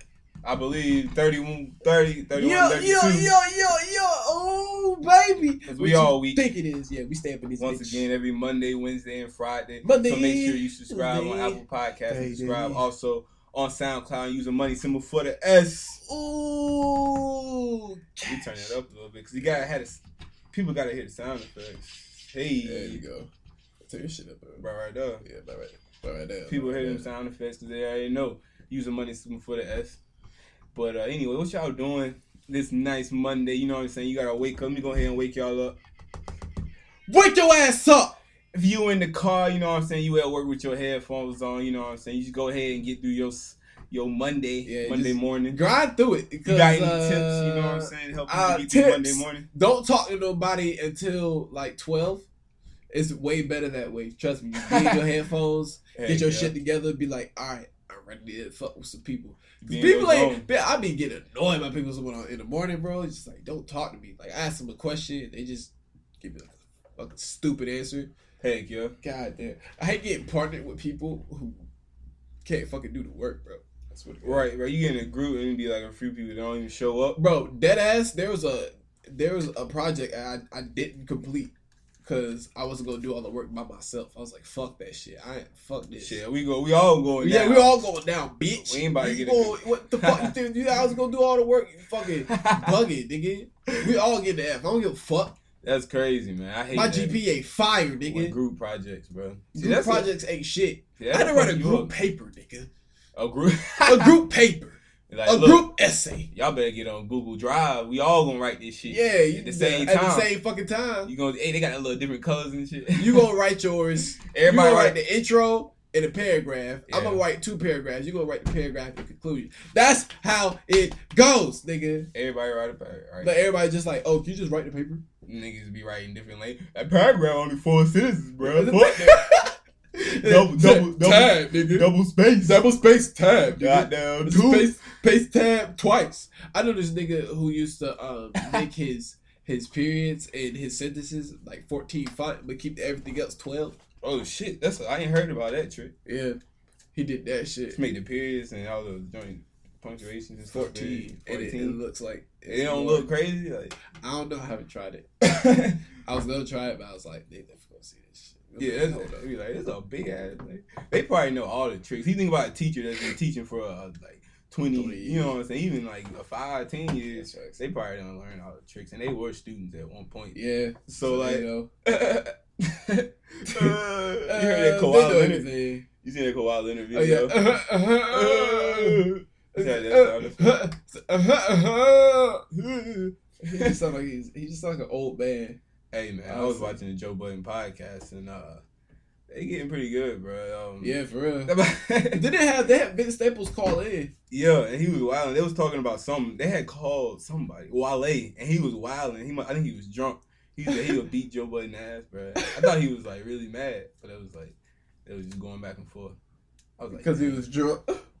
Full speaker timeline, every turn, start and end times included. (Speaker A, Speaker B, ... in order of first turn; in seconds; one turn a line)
Speaker A: 0.4-3.3
Speaker B: 2.3-8.1
Speaker A: 5.6-6.5
Speaker A: 7.6-16.0
Speaker B: 9.8-12.8
Speaker B: 16.0-18.8
Speaker A: 18.2-23.0
Speaker B: 22.6-23.3
Speaker B: 23.8-24.6
Speaker A: 24.6-25.2
Speaker B: 25.2-27.1
Speaker A: 26.5-30.0
Speaker A: 30.7-35.8
Speaker B: 37.1-38.2
Speaker A: 38.5-45.6
Speaker B: 44.6-52.3
Speaker A: 46.4-49.5
Speaker B: 52.9-68.1
Speaker A: 54.6-55.1
Speaker A: 55.9-56.5
Speaker A: 59.6-60.5
Speaker A: 68.4-69.0
Speaker B: 69.0-71.6
Speaker B: 72.4-74.5
Speaker A: 74.2-77.2
Speaker B: 77.2-81.5
Speaker B: 82.0-86.2
Speaker A: 86.0-87.9
Speaker B: 87.2-95.3
Speaker A: 88.5-90.3
Speaker A: 92.3-92.8
Speaker A: 95.6-97.2
Speaker B: 96.7-98.4
Speaker A: 98.1-100.1
Speaker B: 99.5-102.7
Speaker A: 101.0-101.9
Speaker A: 103.2-104.2
Speaker B: 103.8-106.3
Speaker A: 105.1-105.7
Speaker A: 106.3-110.3
Speaker B: 108.8-111.1
Speaker A: 111.0-113.3
Speaker B: 112.9-122.1
Speaker A: 114.3-115.0
Speaker A: 116.9-117.2
Speaker A: 122.1-123.4
Speaker B: 123.2-125.0
Speaker A: 125.2-129.4
Speaker B: 128.4-131.9
Speaker A: 130.1-132.6
Speaker B: 132.4-143.8
Speaker A: 133.6-134.8
Speaker A: 144.0-145.9
Speaker B: 146.0-146.4
Speaker B: 146.9-147.8
Speaker A: 147.7-151.8
Speaker B: 150.5-153.1
Speaker A: 152.4-153.8
Speaker B: 154.0-155.1
Speaker A: 155.2-155.8
Speaker B: 156.0-159.2
Speaker A: 158.6-170.3
Speaker B: 164.7-165.4
Speaker B: 167.1-167.6
Speaker B: 170.3-171.7
Speaker A: 170.9-175.5
Speaker B: 174.3-175.9
Speaker A: 176.0-180.7
Speaker B: 176.9-182.4
Speaker A: 182.5-183.8
Speaker B: 183.4-185.6
Speaker A: 185.9-188.6
Speaker B: 186.2-186.8
Speaker A: 189.3-192.2
Speaker B: 190.8-191.5
Speaker B: 192.1-194.1
Speaker A: 194.3-206.2
Speaker A: 206.8-207.4
Speaker B: 206.9-208.1